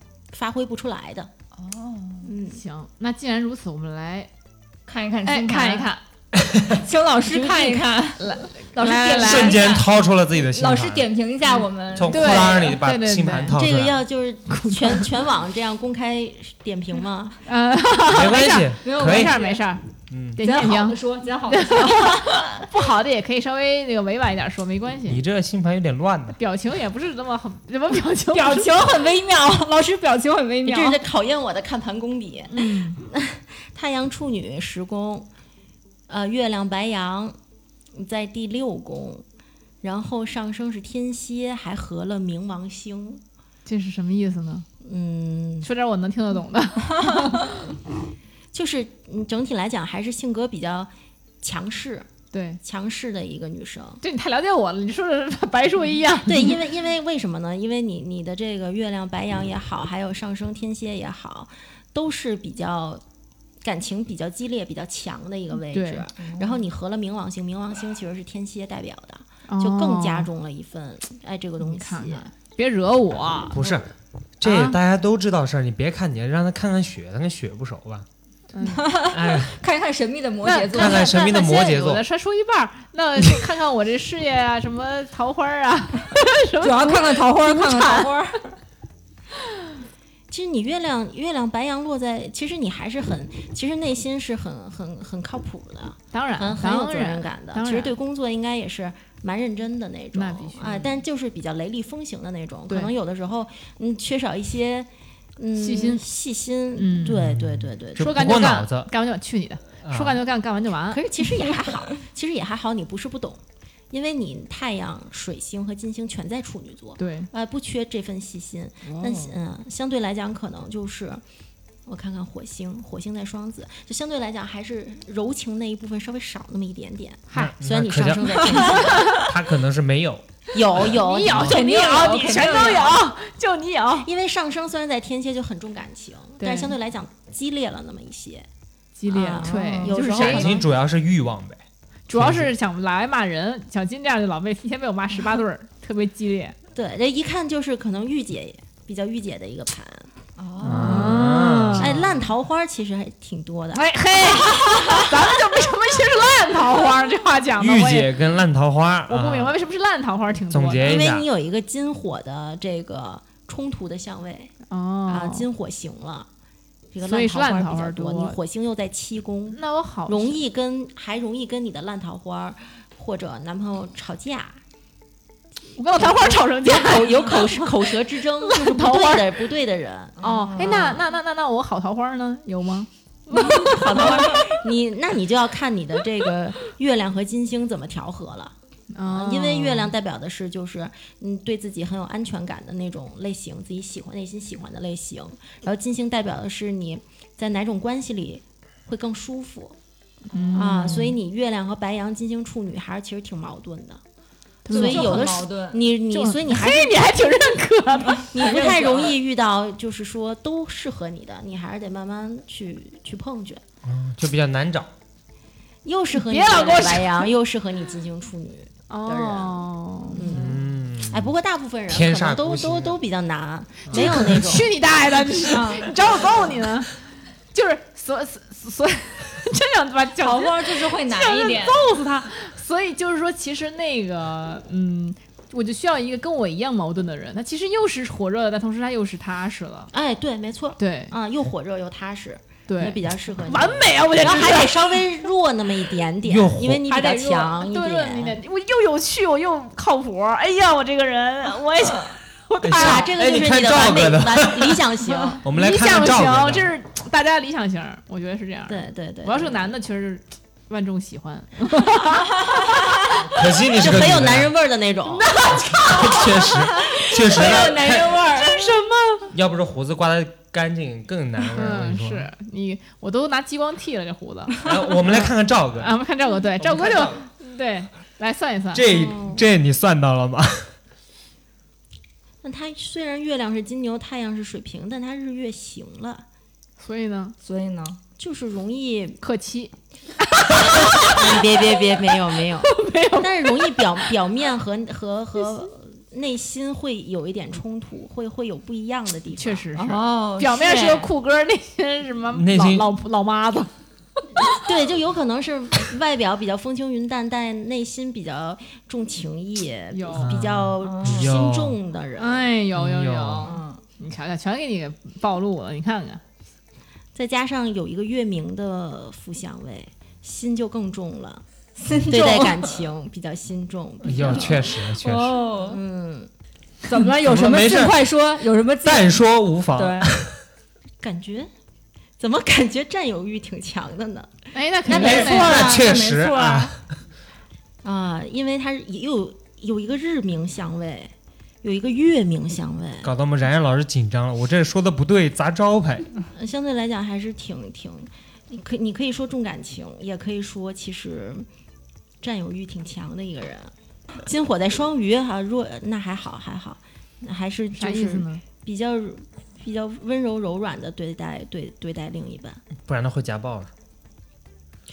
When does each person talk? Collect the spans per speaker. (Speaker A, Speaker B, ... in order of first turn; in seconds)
Speaker A: 0.3-1.3, 2.2-2.6, 7.3-8.0, 8.8-9.6, 13.6-17.4, 30.6-35.3, 36.1-37.4, 37.9-39.2, 39.8-43.2, 44.8-45.7, 48.5-52.1, 52.6-54.0, 56.3-63.0, 63.6-72.3, 90.3-108.3, 110.9-121.2, 121.9-129.1, 130.5-131.6, 134.1-138.5, 139.1-140.7, 146.7-150.1, 151.8-155.1, 160.8-164.5, 165.1-166.3, 166.9-174.6, 176.0-181.0, 183.3-188.6, 189.1-199.8, 200.5-204.0, 204.7-207.0, 208.3-213.6, 215.8-224.7, 239.9-248.4, 252.8-255.4, 258.7-259.6, 263.7-265.5, 278.8-279.4, 282.4-286.2, 288.2-289.2, 291.0-299.7, 304.5-312.5, 317.1-321.4, 322.1-324.7, 325.6-326.3, 331.0-331.5, 332.2-336.0, 337.8-341.1, 341.6-343.1, 346.4-351.5, 352.2-362.6
Speaker B: 1.6-2.3, 4.9-5.9, 6.8-12.8, 18.8-19.6, 20.4-22.4, 28.3-31.0, 66.2-66.6, 78.6-81.1, 86.6-88.4, 131.3-133.0, 139.4-140.2, 150.4-151.3, 180.2-181.0, 204.7-205.9, 208.2-209.2, 225.5-226.0, 230.2-232.0, 246.8-247.6, 262.3-262.5, 265.3-268.8, 287.4-288.0, 299.8-301.1, 310.8-311.4, 313.4-313.8, 321.8-322.9, 324.5-325.8, 326.9-329.2, 329.8-330.1, 334.9-336.8
Speaker C: 2.5-4.3, 5.3-6.0, 8.2-9.7, 12.1-13.6, 14.5-15.1, 17.4-25.2, 26.4-28.9, 32.5-33.0, 43.6-44.7, 45.6-47.7, 52.3-52.6, 54.0-56.6, 65.7-66.1, 69.5-70.3, 71.6-73.6, 74.4-74.8, 78.5-78.9, 80.4-88.1, 96.1-98.0, 100.1-100.9, 102.7-102.9, 105.6-106.0, 106.7-107.3, 108.0-111.0, 117.0-117.3, 118.8-119.3, 127.3-127.5, 128.7-129.3, 130.8-134.1, 136.4-136.8, 139.0-140.6, 142.1-146.6, 150.6-152.3, 153.7-158.1, 159.1-161.0, 164.7-165.5, 167.0-168.4, 169.5-170.4, 175.8-179.4, 180.2-184.4, 188.9-189.9, 200.3-201.2, 204.7-205.4, 206.1-208.8, 216.1-217.3, 218.9-220.4, 223.9-227.0, 227.5-239.9, 240.8-241.1, 242.7-245.1, 247.6-253.1, 255.4-262.3, 265.4-265.8, 268.5-269.2, 271.4-278.9, 286.8-287.4, 289.2-294.1, 299.4-303.7, 309.9-310.5, 312.2-316.2, 334.5-335.7, 357.8-358.4
Speaker D: 6.3-6.8, 9.2-11.1, 11.9-14.0, 18.1-19.4, 20.1-20.4, 25.1-26.4, 73.5-78.1, 79.1-79.6, 80.8-82.0, 107.2-108.9, 109.8-110.2, 127.4-131.6, 140.1-141.6, 142.1-142.5, 150.6-152.0, 157.6-159.6, 160.5-161.3, 213.8-214.9, 220.3-221.3, 221.9-223.0, 223.9-224.4, 246.2-246.8, 252.6-254.9, 255.4-256.7, 263.2-264.5, 265.5-268.2, 269.3-272.3, 274.6-277.2, 278.7-280.7, 302.3-302.9, 310.1-311.8, 312.8-313.6, 324.0-325.4, 326.9-328.0, 328.8-330.4, 334.9-336.8, 343.0-346.1, 362.8-363.7